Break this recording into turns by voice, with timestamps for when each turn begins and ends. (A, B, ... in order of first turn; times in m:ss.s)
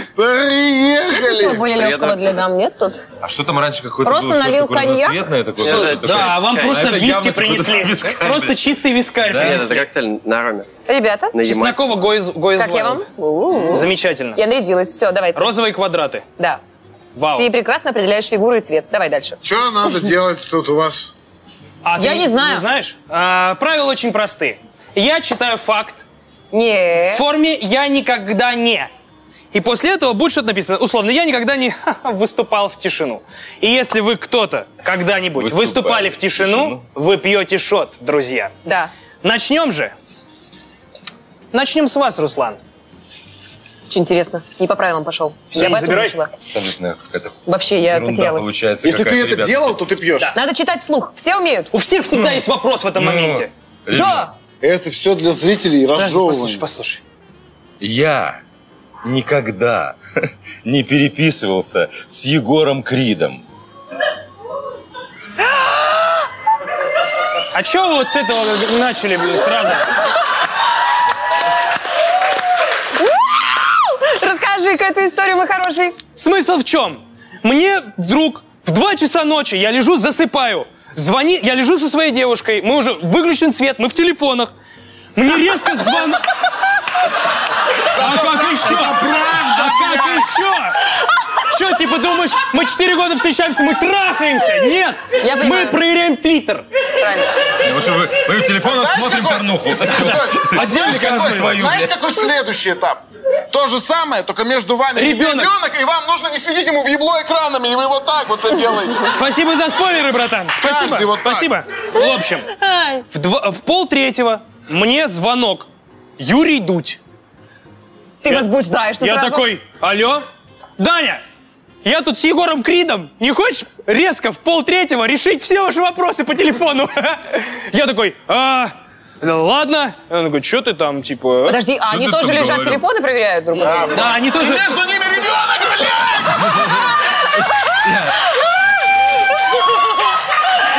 0:00.2-0:01.7 A
0:01.1-0:03.0 B
0:01.7-0:02.4 C
0:03.2-0:08.6 D
0:04.0-0:05.2 B
0:05.6-0:06.9 C
0:05.7-0:09.8 E
0:09.3-0:09.8 D
0:09.3-0:10.7 C
0:10.9-0:11.4 B
0:11.3-0:11.9 C
0:11.4-0:13.0 E
0:12.6-0:15.5 B
0:13.7-0:14.4 E
0:15.4-0:16.2 E
0:17.2-0:17.5 E
0:17.4-0:19.4 B
0:19.4-0:21.1 A
0:21.8-0:26.1 E
0:22.0-0:22.6 B
0:26.5-0:27.2 B
0:27.1-0:28.9 E
0:29.5-0:38.5 E
0:35.3-0:36.8 D
0:38.6-0:38.9 B
0:39.2-0:39.9 E
0:41.5-0:42.6 E
0:43.9-0:46.3 B
0:45.5-0:46.2 E
0:46.4-0:49.8 D
0:47.5-0:48.5 B
0:48.8-0:50.4 A
0:50.4-0:51.7 B
0:51.7-0:53.5 E
0:53.0-0:54.3 D
0:53.9-0:54.3 B
0:54.6-0:56.6 A
0:55.9-0:57.0 E
0:57.8-0:58.4 D
0:59.0-1:03.4 D
1:07.5-1:09.9 E
1:13.0-1:16.0 B
1:16.2-1:24.5 E
1:25.2-1:26.2 E
1:27.9-1:30.3 A
1:28.0-1:30.8 E
1:31.5-1:36.7 E
1:35.2-1:35.8 B
1:37.0-1:37.3 B
1:37.6-1:42.1 D
1:38.6-1:49.1 A
1:40.0-1:41.6 E
1:45.0-1:45.5 E
1:49.0-1:52.5 E
1:50.6-1:51.5 A
1:52.0-1:53.0 B
1:53.1-1:55.7 E
1:56.2-1:57.0 E
1:58.2-1:59.4 B
1:59.0-2:00.3 E
2:00.8-2:01.2 E
2:01.8-2:11.6 E
2:11.5-2:14.0 B
2:11.9-2:12.8 D
2:13.6-2:16.3 A
2:13.9-2:14.7 E
2:16.3-2:17.0 D
2:17.8-2:18.2 D